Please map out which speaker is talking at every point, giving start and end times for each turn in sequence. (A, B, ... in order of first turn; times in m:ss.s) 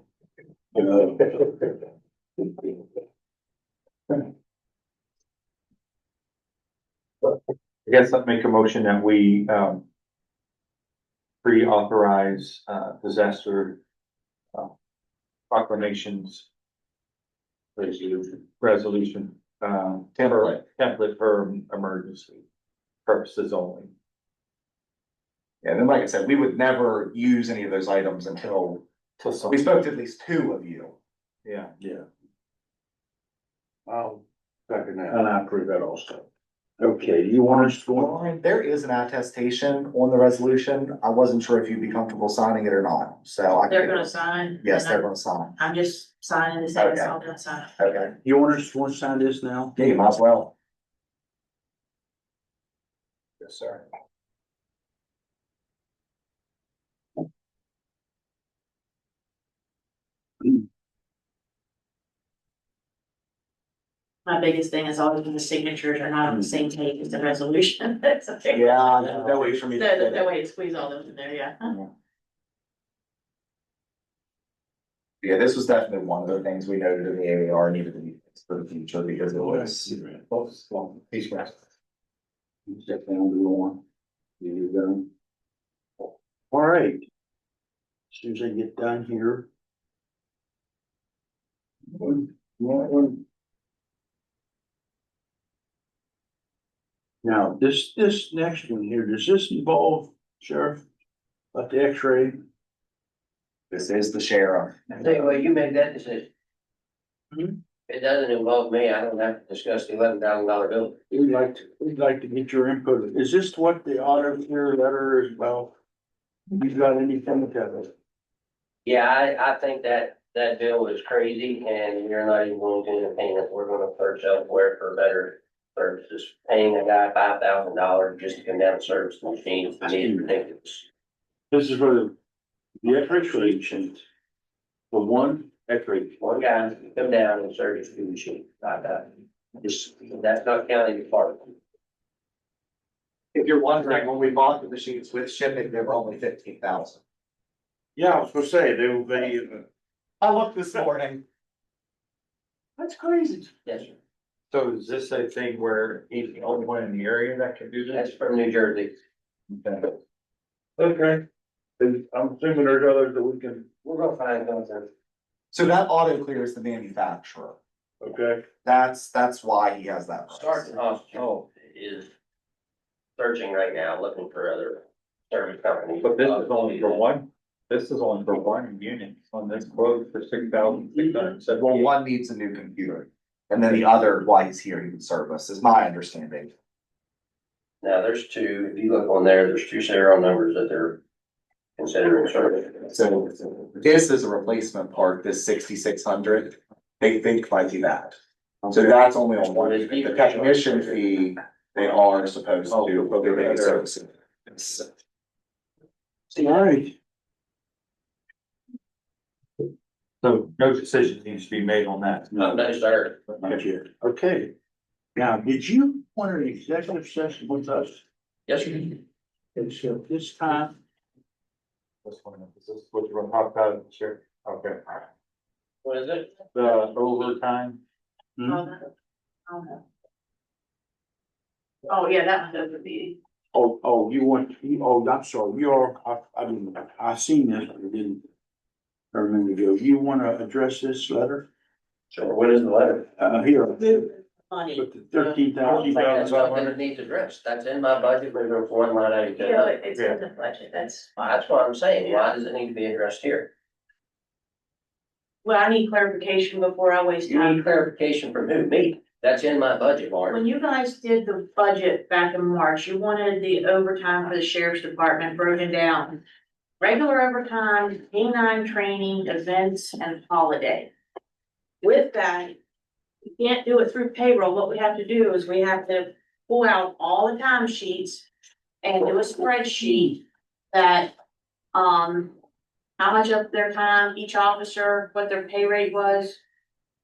0:00.8-0:01.6 A
0:07.9-0:09.8 B
0:11.4-0:13.8 B
0:15.5-0:16.5 B
0:17.8-0:22.4 B
0:23.1-0:23.9 B
0:25.6-0:28.9 C
0:29.2-0:29.7 B
0:29.5-0:31.0 C
0:31.4-0:31.7 B
0:31.8-0:32.1 A
0:33.9-0:35.4 A
0:36.8-0:38.2 A
0:37.6-0:45.6 C
0:43.7-0:45.1 D
0:45.6-0:47.8 D
0:46.8-0:47.2 C
0:47.8-0:48.2 C
0:48.2-0:49.8 A
0:49.8-0:50.5 C
0:53.4-0:53.8 C
1:04.3-1:08.9 D
1:08.5-1:10.3 C
1:09.7-1:11.8 D
1:15.2-1:21.6 C
1:19.4-1:20.2 A
1:22.7-1:23.8 A
1:24.4-1:25.1 A
1:26.5-1:27.0 A
1:28.1-1:29.5 A
1:31.9-1:33.2 A
1:37.2-1:40.8 A
1:41.5-1:42.4 A
1:43.7-1:45.3 C
1:45.0-1:46.3 E
1:47.3-1:47.6 A
1:47.9-1:51.0 E
1:51.1-1:55.7 A
1:56.5-1:57.9 A
1:58.8-2:10.8 E
2:09.8-2:10.3 A
2:11.5-2:12.1 A
2:12.8-2:14.0 A
2:14.9-2:16.1 A
2:16.2-2:21.5 E
2:23.3-2:27.0 C
2:28.0-2:29.6 A
2:30.2-2:31.2 C
2:33.6-2:34.0 E
2:34.5-2:38.1 B
2:37.9-2:38.9 E
2:39.6-2:39.9 B
2:40.8-2:41.2 A
2:41.8-2:43.6 A
2:43.8-2:44.9 E
2:45.5-2:47.6 C
2:48.0-2:48.4 A
2:48.6-2:50.7 C
2:50.3-2:52.1 E
2:51.2-2:51.4 B
2:53.2-2:57.0 E
2:56.0-3:01.8 B
3:01.5-3:06.5 C
3:07.8-3:11.0 E
3:11.8-3:12.9 E
3:12.9-3:18.2 C
3:18.7-3:24.9 C
3:19.4-3:21.2 E
3:22.7-3:23.9 B
3:26.3-3:27.0 A
3:30.2-3:32.3 B
3:32.3-3:32.6 A
3:32.4-3:33.2 E
3:33.4-3:34.5 A
3:35.2-3:38.0 A
3:38.5-3:39.0 E
3:39.6-3:40.8 A
3:42.0-3:45.0 B
3:45.8-3:46.4 E
3:46.5-3:47.8 B
3:48.4-3:48.6 A
3:48.5-3:48.9 D
3:49.5-3:49.8 D
3:51.8-3:53.2 D
3:53.5-3:58.2 A
3:59.1-4:01.5 A
4:02.1-4:03.1 E
4:03.2-4:04.1 A
4:03.8-4:05.4 D
4:04.8-4:06.5 A
4:05.7-4:06.7 B
4:05.9-4:09.7 E
4:09.4-4:11.2 D
4:11.2-4:13.5 E
4:12.0-4:12.3 D
4:15.4-4:17.7 D
4:17.2-4:20.4 E
4:20.3-4:26.2 D
4:26.8-4:30.9 D
4:31.8-4:32.6 D
4:33.4-4:38.2 D
4:38.8-4:41.1 D
4:41.7-4:42.3 D
4:43.0-4:46.4 D